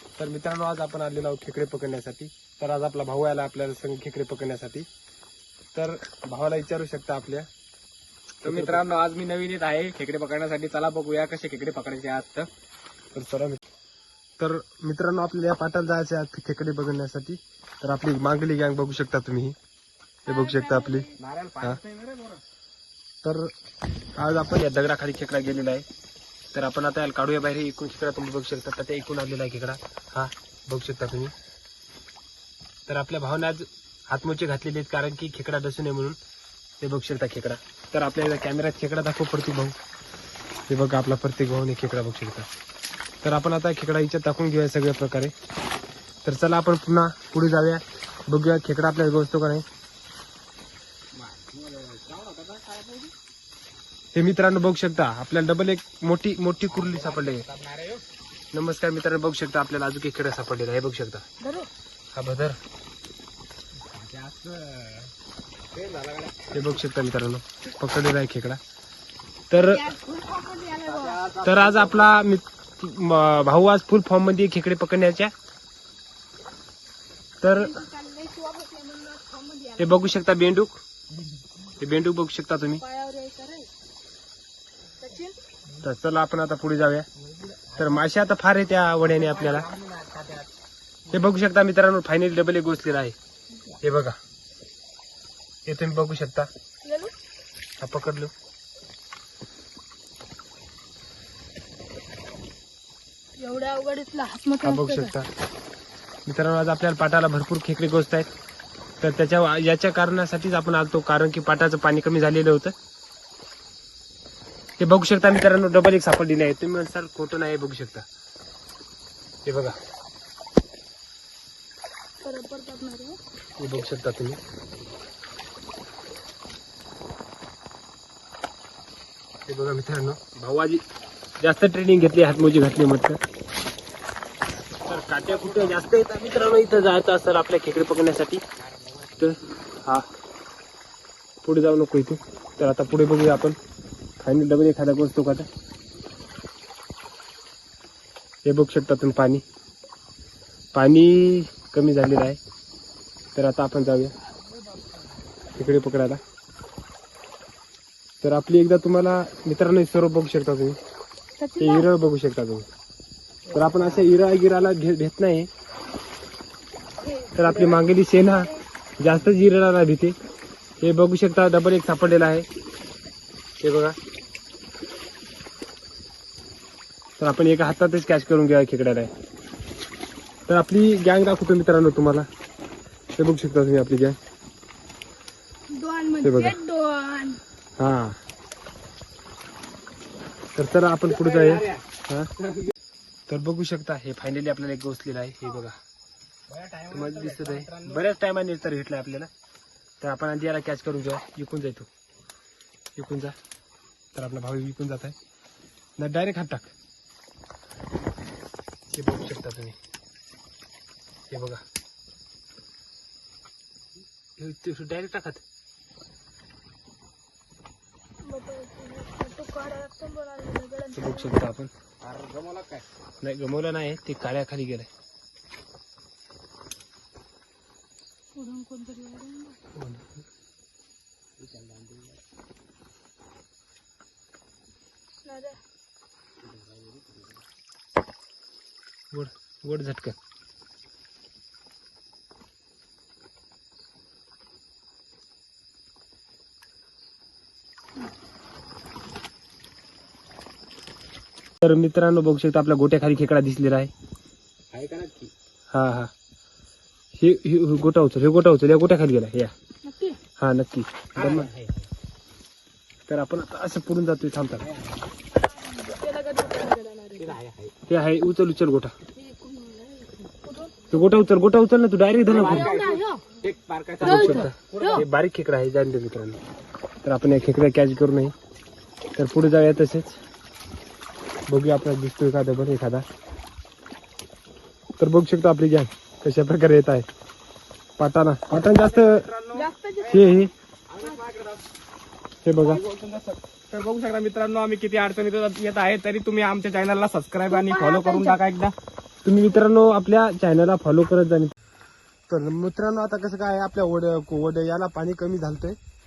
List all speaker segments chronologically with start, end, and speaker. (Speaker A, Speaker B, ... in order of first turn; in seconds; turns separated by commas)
Speaker A: 0.2-4.9, Speaker A: 5.8-7.5, Speaker B: 8.4-12.5, Speaker A: 8.4-8.8, Speaker A: 13.1-13.6, Speaker A: 14.4-19.6, Speaker C: 20.2-21.2, Speaker A: 20.3-21.1, Speaker B: 21.2-22.4, Speaker A: 23.2-23.5, Speaker A: 24.2-25.9, Speaker A: 26.5-31.3, Speaker A: 32.9-36.2, Speaker A: 36.8-39.8, Speaker A: 40.7-42.5, Speaker A: 43.2-45.3, Speaker A: 46.2-49.6, Speaker B: 51.1-53.1, Speaker A: 54.1-57.5, Speaker B: 56.7-58.0, Speaker A: 58.5-61.2, Speaker C: 61.4-61.7, Speaker A: 62.1-62.6, Speaker B: 63.8-65.1, Speaker B: 65.7-66.5, Speaker A: 66.5-68.6, Speaker A: 69.5-69.9, Speaker C: 69.6-71.3, Speaker B: 70.9-72.1, Speaker A: 71.4-75.3, Speaker A: 77.4-77.8, Speaker C: 77.5-80.0, Speaker A: 79.8-80.8, Speaker A: 81.8-82.8, Speaker C: 82.8-83.7, Speaker C: 85.0-85.4, Speaker A: 85.8-87.1, Speaker B: 87.2-88.0, Speaker A: 87.8-89.7, Speaker B: 89.1-90.5, Speaker A: 91.1-93.2, Speaker A: 93.8-94.2, Speaker A: 95.7-96.5, Speaker C: 96.8-97.1, Speaker A: 97.8-98.3, Speaker C: 103.4-105.1, Speaker A: 104.6-105.3, Speaker A: 106.3-108.3, Speaker A: 109.0-112.7, Speaker A: 114.8-118.1, Speaker A: 119.5-119.8, Speaker C: 122.2-123.2, Speaker A: 123.6-124.4, Speaker A: 129.5-130.8, Speaker A: 131.4-133.2, Speaker B: 134.7-135.9, Speaker A: 134.9-138.4, Speaker B: 138.7-139.2, Speaker A: 139.2-140.1, Speaker A: 141.4-143.6, Speaker A: 144.2-145.5, Speaker A: 148.4-149.4, Speaker A: 150.7-152.4, Speaker A: 153.3-154.1, Speaker A: 155.6-156.2, Speaker A: 158.2-160.8, Speaker C: 161.4-161.9, Speaker A: 161.6-162.7, Speaker A: 163.5-165.5, Speaker B: 163.6-164.1, Speaker C: 167.0-168.6, Speaker A: 167.3-170.2, Speaker A: 170.8-172.5, Speaker A: 173.6-174.0, Speaker A: 177.2-179.1, Speaker A: 180.5-182.3, Speaker A: 183.2-184.2, Speaker C: 185.7-187.4, Speaker A: 186.2-186.6, Speaker A: 187.8-188.2, Speaker A: 190.6-192.3, Speaker B: 191.1-191.8, Speaker A: 193.3-195.8, Speaker B: 196.5-198.0, Speaker A: 196.9-199.3, Speaker A: 200.0-201.9, Speaker A: 203.0-203.4, Speaker A: 204.1-205.2, Speaker A: 206.0-206.7, Speaker A: 208.9-209.8, Speaker A: 211.3-211.6, Speaker A: 214.4-215.4, Speaker C: 218.2-221.4, Speaker A: 220.9-221.7, Speaker B: 222.0-222.8, Speaker A: 223.2-224.9, Speaker C: 228.3-229.6, Speaker A: 229.7-230.2, Speaker B: 231.4-232.2, Speaker C: 235.2-235.6, Speaker B: 236.4-237.4, Speaker A: 239.1-240.2, Speaker A: 251.6-253.9, Speaker B: 254.7-255.3, Speaker A: 255.7-256.1, Speaker A: 257.2-259.5, Speaker C: 259.9-260.2, Speaker A: 260.4-261.5, Speaker B: 261.1-261.9, Speaker A: 263.1-264.7, Speaker B: 264.6-265.1, Speaker C: 265.4-267.4, Speaker B: 267.2-267.8, Speaker A: 267.9-268.9, Speaker C: 269.1-271.0, Speaker A: 270.9-272.8, Speaker B: 272.2-275.0, Speaker C: 272.3-273.3, Speaker A: 274.0-276.4, Speaker C: 274.0-275.0, Speaker A: 277.0-278.4, Speaker A: 279.2-280.2, Speaker A: 281.5-283.1, Speaker A: 285.0-287.1, Speaker A: 288.0-289.3, Speaker B: 288.6-289.7, Speaker C: 289.5-290.5, Speaker A: 290.0-290.5, Speaker B: 290.9-291.6, Speaker A: 292.4-292.8, Speaker B: 292.6-298.8, Speaker C: 297.5-298.4, Speaker A: 299.2-301.5, Speaker A: 302.3-305.8